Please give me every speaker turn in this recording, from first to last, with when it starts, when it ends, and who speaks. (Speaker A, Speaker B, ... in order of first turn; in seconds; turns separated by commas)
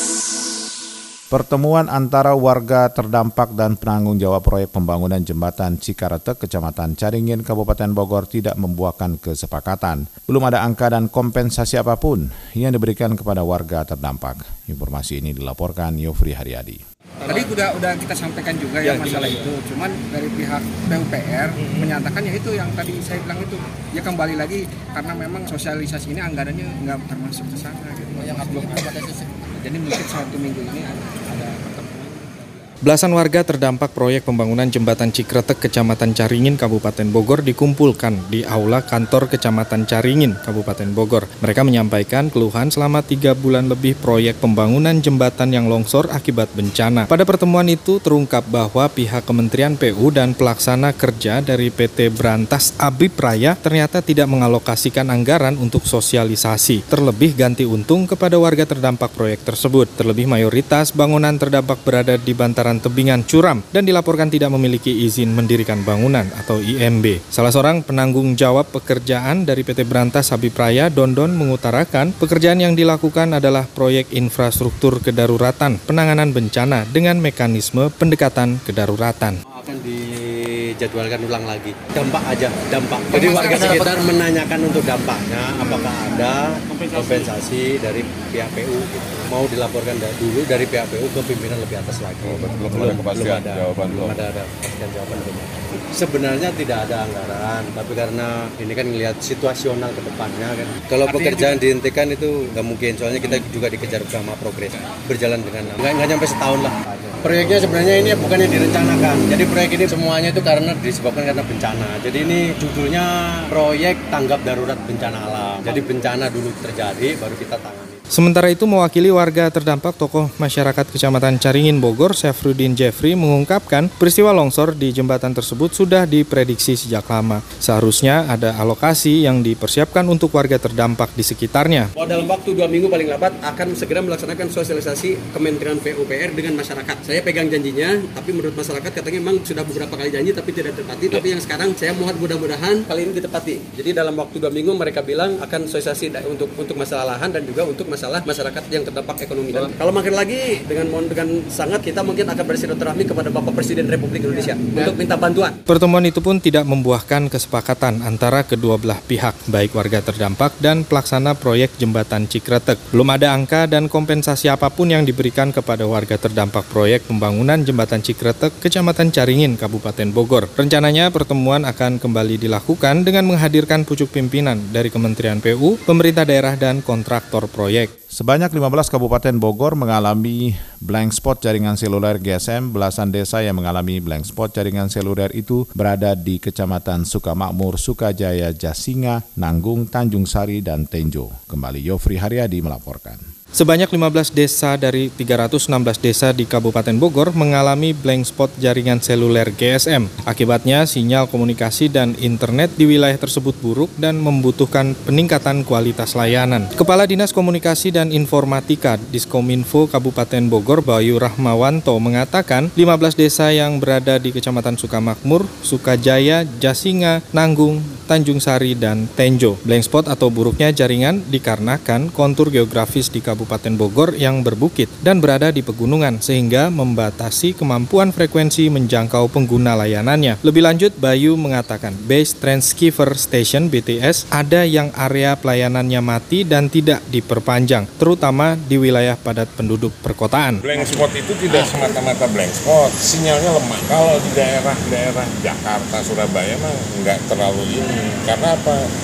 Speaker A: 1.3-16.8, Speaker B: 17.2-32.6, Speaker C: 18.8-19.4, Speaker C: 21.6-21.9, Speaker C: 28.2-29.1, Speaker D: 32.8-79.4, Speaker E: 79.5-118.0, Speaker B: 83.1-84.1, Speaker D: 118.1-131.9, Speaker C: 132.0-155.6, Speaker B: 154.4-154.9, Speaker D: 155.7-177.9, Speaker A: 178.1-193.2, Speaker D: 193.6-240.6, Speaker F: 240.6-248.9